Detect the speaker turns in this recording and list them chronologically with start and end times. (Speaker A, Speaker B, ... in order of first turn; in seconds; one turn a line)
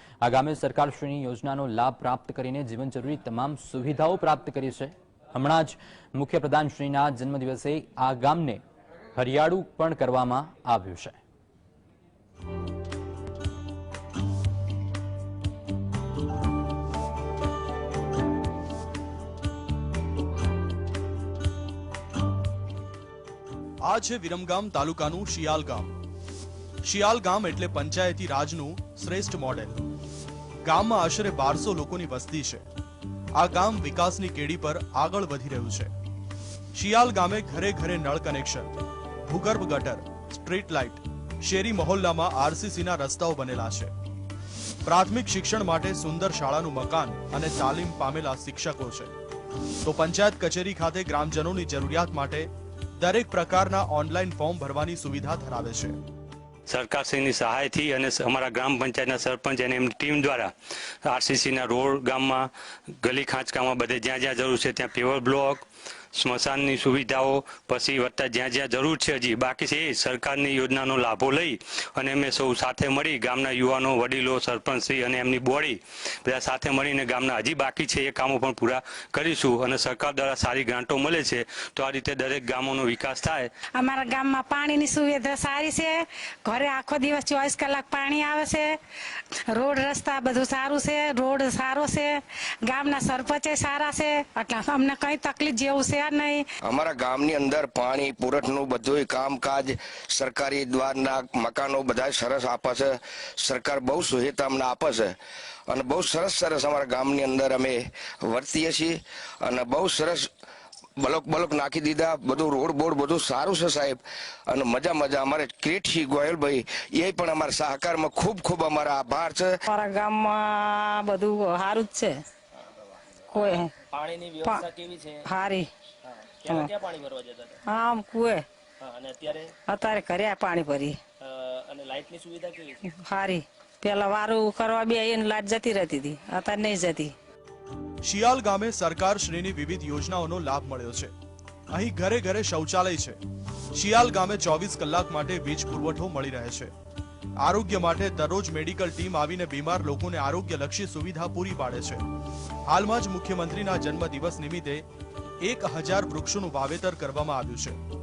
Speaker A: 0.2-8.6
Speaker A: 9.2-11.2
Speaker B: 23.8-25.9
Speaker B: 26.8-29.9
Speaker B: 30.6-32.6
Speaker B: 33.4-35.9
Speaker B: 36.8-38.7
Speaker B: 39.3-43.9
Speaker B: 44.9-49.1
Speaker B: 49.8-52.5
Speaker B: 53.0-56.0
Speaker C: 56.7-60.5
Speaker C: 61.0-62.5
Speaker C: 63.0-65.6
Speaker C: 66.1-83.5
Speaker D: 83.8-88.7
Speaker D: 89.5-96.4
Speaker E: 96.6-105.1
Speaker E: 105.7-110.3
Speaker E: 111.0-119.5
Speaker D: 119.7-122.1
Speaker D: 123.3-123.7
Speaker F: 123.3-125.2
Speaker D: 125.3-125.7
Speaker F: 126.0-127.6
Speaker D: 127.7-128.4
Speaker F: 128.8-129.5
Speaker D: 129.7-131.0
Speaker F: 131.2-132.8
Speaker D: 132.8-137.1
Speaker B: 138.0-141.1
Speaker B: 141.7-143.2
Speaker B: 143.7-146.7
Speaker B: 147.4-152.1
Speaker B: 152.7-154.8
Speaker B: 155.4-157.8